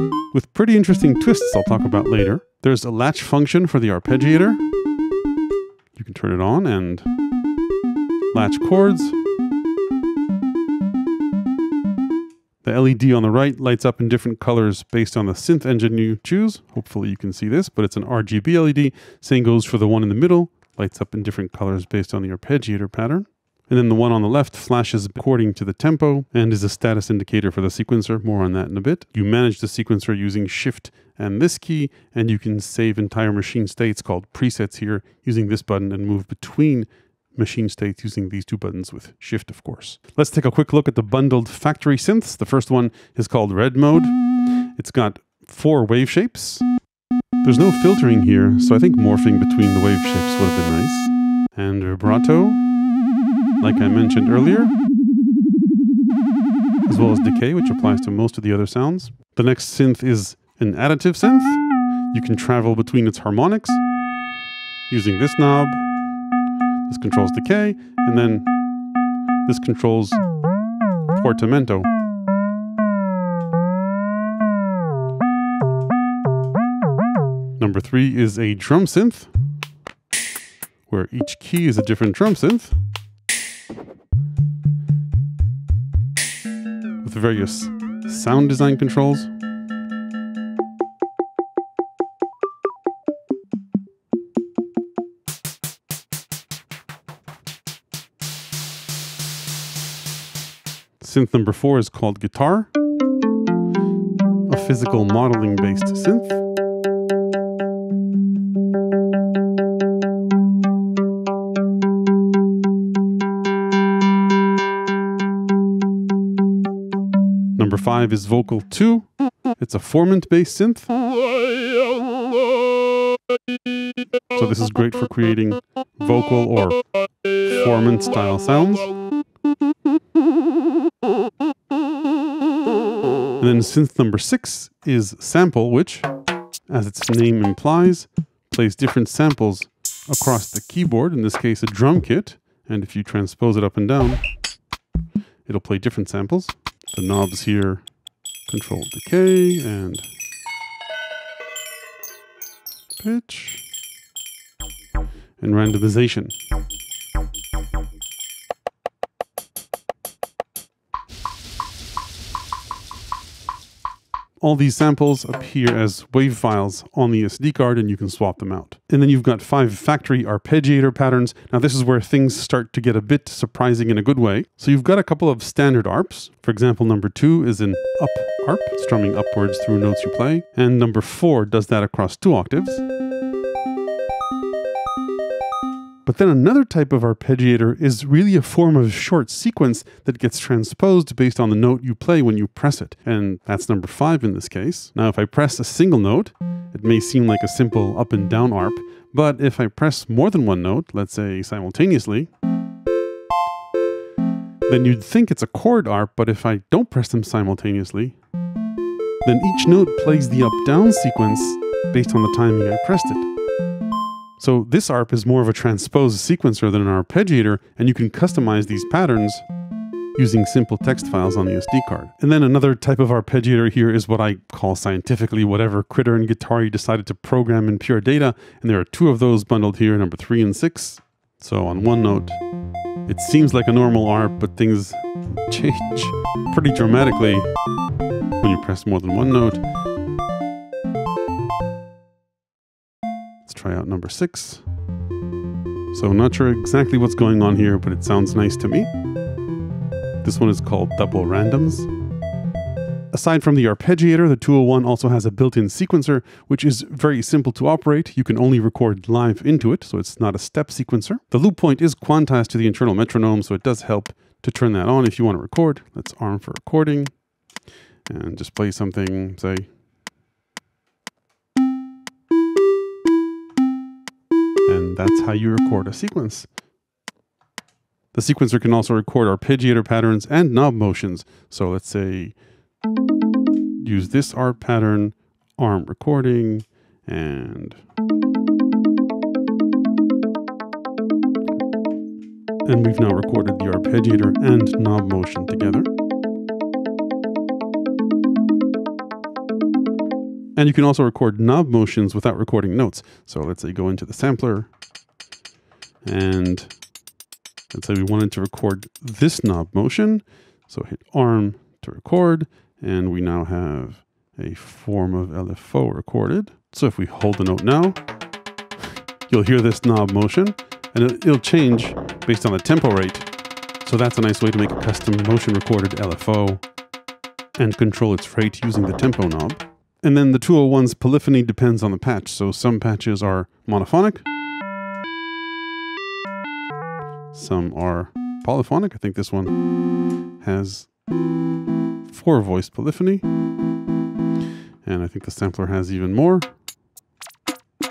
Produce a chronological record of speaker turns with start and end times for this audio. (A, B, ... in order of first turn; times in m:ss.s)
0:00.3-0:04.6 A
0:05.9-0:07.1 A
0:08.3-0:09.2 A
0:12.6-0:44.1 A
0:44.8-0:46.6 A
0:47.4-0:52.6 A
0:53.6-0:54.7 A
0:56.8-1:03.8 A
1:04.9-1:05.8 A
1:06.9-1:08.5 A
1:09.4-1:10.2 A
1:11.1-1:11.9 A
1:17.6-1:19.3 A
1:20.9-1:22.7 A
1:27.0-1:29.3 A
1:41.0-1:42.7 A
1:44.5-1:46.4 A
1:57.6-1:59.1 A
1:59.6-2:00.9 A
2:04.3-2:06.8 A
2:07.4-2:08.9 A
2:13.4-2:16.1 A
2:16.7-2:24.2 A
2:25.4-2:27.8 A
2:28.5-2:30.1 A
2:33.0-2:33.6 A
2:35.4-2:36.3 A
2:44.4-3:02.8 A
3:06.0-3:22.3 A
3:24.7-3:28.2 A
3:29.2-3:33.3 A
3:34.4-3:39.4 A
3:40.1-3:52.4 A
3:53.1-3:57.5 A
3:58.4-3:59.6 A
4:03.4-4:04.6 A
4:05.9-4:08.9 A
4:10.2-4:11.9 A
4:13.1-4:27.1 A
4:28.1-4:29.7 A
4:34.6-4:36.5 A
4:38.1-4:42.4 A
4:43.8-4:47.8 A
4:52.6-4:55.9 A
5:00.6-5:04.7 A
5:06.0-5:06.7 A
5:07.7-5:18.0 A
5:19.3-5:23.3 A
5:23.8-5:26.6 A
5:27.6-5:34.2 A
5:37.3-5:39.6 A
5:40.4-5:40.9 A
5:42.1-5:43.2 A
5:44.8-5:46.5 A